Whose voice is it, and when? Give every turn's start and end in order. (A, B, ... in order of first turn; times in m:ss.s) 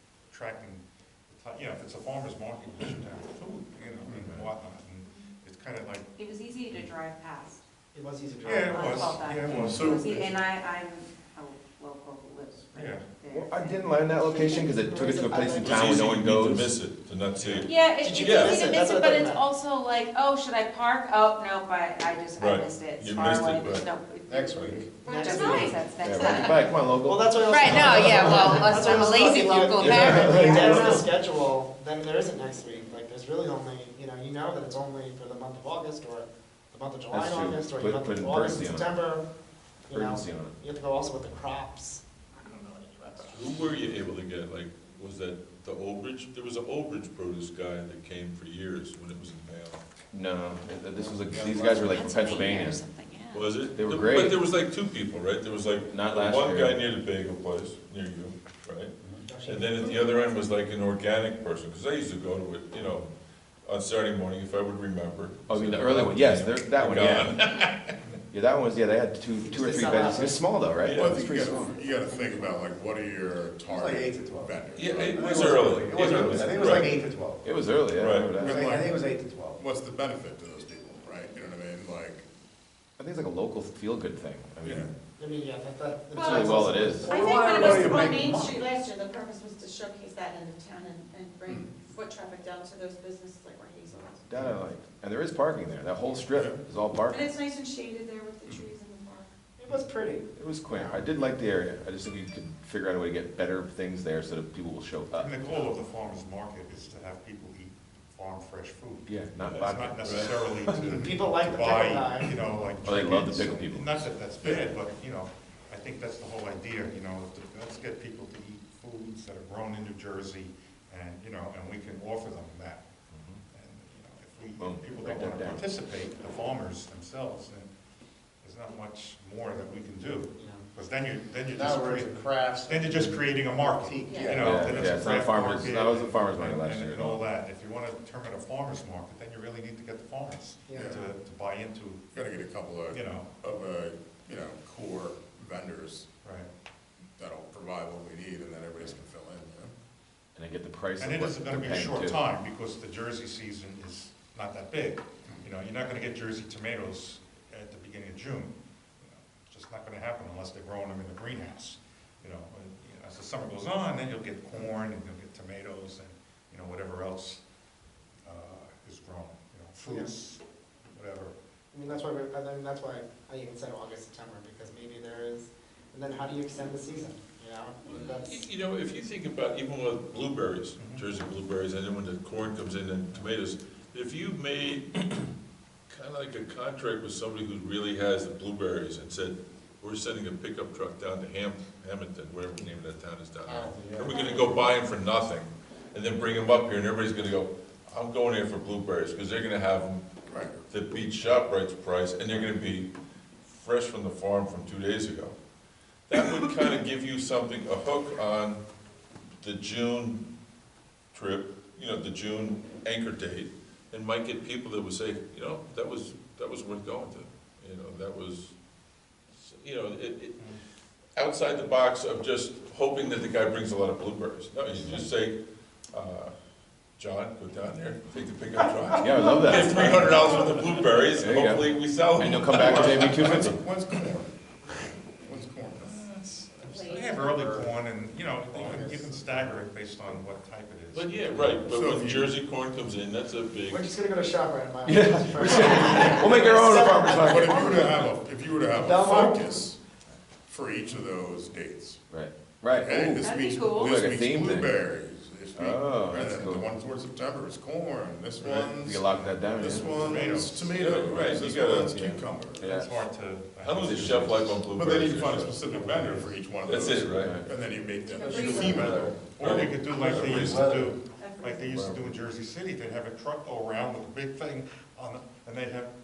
0:00.3-0:06.1 A
0:04.2-0:04.5 B
0:06.2-0:07.6 C
0:07.9-0:09.1 D
0:08.4-0:10.2 A
0:08.7-0:13.8 C
0:09.4-0:10.3 E
0:12.7-0:13.0 A
0:13.3-0:16.7 B
0:14.4-0:16.0 D
0:15.6-0:18.6 F
0:17.4-0:17.7 A
0:17.6-0:26.7 C
0:18.0-0:19.4 D
0:22.4-0:23.8 F
0:24.3-0:25.0 G
0:24.6-0:25.8 H
0:25.0-0:26.5 D
0:26.0-0:31.1 B
0:27.0-0:39.2 D
0:27.5-0:31.0 C
0:37.1-0:38.9 B
0:39.9-0:43.6 D
0:39.9-0:40.5 B
0:43.3-0:49.8 F
0:50.1-0:52.8 B
0:50.9-0:51.7 G
0:51.7-0:53.5 C
0:53.3-0:58.9 F
0:53.7-0:54.4 B
0:55.9-0:56.8 B
0:59.0-0:59.5 G
0:59.3-1:00.1 D
0:59.5-1:03.1 F
1:03.6-1:07.9 F
1:05.5-1:07.4 B
1:08.3-1:11.8 B
1:09.4-1:10.4 D
1:10.8-1:11.2 F
1:10.9-1:15.2 E
1:11.4-1:12.6 G
1:13.7-1:17.5 G
1:14.7-1:17.0 F
1:17.4-1:18.8 B
1:18.0-1:18.3 F
1:18.3-1:19.6 G
1:18.4-1:18.9 A
1:19.6-1:22.2 E
1:23.0-1:24.9 B
1:24.6-1:24.9 E
1:25.2-1:28.0 D
1:26.1-1:28.0 B
1:26.2-1:26.4 H
1:27.1-1:28.1 C
1:27.1-1:34.2 H
1:27.2-1:28.8 G
1:31.5-1:31.7 E
1:34.3-1:37.3 B
1:36.3-1:36.6 E
1:37.1-1:39.3 H
1:39.6-1:41.1 D
1:40.4-1:45.4 B
1:45.1-2:02.8 A
1:49.1-1:50.3 B
1:49.4-1:50.4 F
1:50.7-1:52.4 D
1:52.8-1:54.1 B
1:54.4-1:54.8 E
2:03.1-2:03.4 B
2:03.5-2:07.7 A
2:04.6-2:05.6 B
2:08.4-2:22.0 A
2:10.4-2:10.7 D
2:11.5-2:14.7 G
2:14.1-2:14.4 H
2:14.4-2:17.2 B
2:14.5-2:14.9 E
2:20.7-2:21.0 D
2:20.8-2:21.0 E
2:22.1-2:26.1 E
2:22.9-2:23.3 A
2:26.2-2:26.5 A
2:27.2-2:29.7 E
2:30.4-2:32.2 B
2:31.0-2:47.4 A
2:48.2-2:51.3 A
2:49.9-2:50.1 D
2:51.7-2:58.5 D
2:57.8-3:05.3 F
3:00.8-3:01.1 A
3:05.9-3:20.0 F
3:13.5-3:14.2 G
3:14.2-3:14.6 H
3:20.3-3:20.6 E
3:20.7-3:22.9 F
3:23.4-3:25.4 F
3:26.1-3:28.6 F
3:29.4-3:30.2 F
3:31.1-3:38.5 F
3:39.4-3:40.4 F
3:41.2-3:45.4 F
3:45.9-3:46.3 F
3:47.0-3:53.2 F
3:49.0-3:50.4 B
3:49.1-3:49.6 D
3:49.9-3:50.3 C
3:51.1-3:53.6 B
3:52.5-3:54.3 E
3:55.2-3:56.6 E
3:55.8-4:01.6 A
3:56.7-3:57.0 C
3:56.9-3:57.2 H
3:57.2-3:57.7 G
3:58.5-3:59.6 G
4:00.9-4:04.0 F
4:01.6-4:02.3 E
4:03.7-4:08.0 D
4:04.8-4:08.0 B
4:07.2-4:09.8 E
4:08.7-4:09.7 D
4:10.5-4:12.0 E
4:12.1-4:14.8 B
4:12.7-4:22.7 E
4:13.2-4:13.9 C
4:15.6-4:16.7 B
4:18.4-4:20.3 B
4:19.1-4:20.7 A
4:20.7-4:22.2 F
4:22.0-4:23.0 B
4:22.6-4:24.6 A
4:23.6-4:25.6 F
4:24.7-4:30.1 E
4:25.5-4:26.4 A
4:26.6-4:27.4 F
4:27.2-4:27.5 B
4:28.1-4:29.1 H
4:28.2-4:29.2 G
4:28.5-4:35.9 A
4:29.3-4:30.7 F
4:30.0-4:31.0 G
4:31.2-4:31.6 C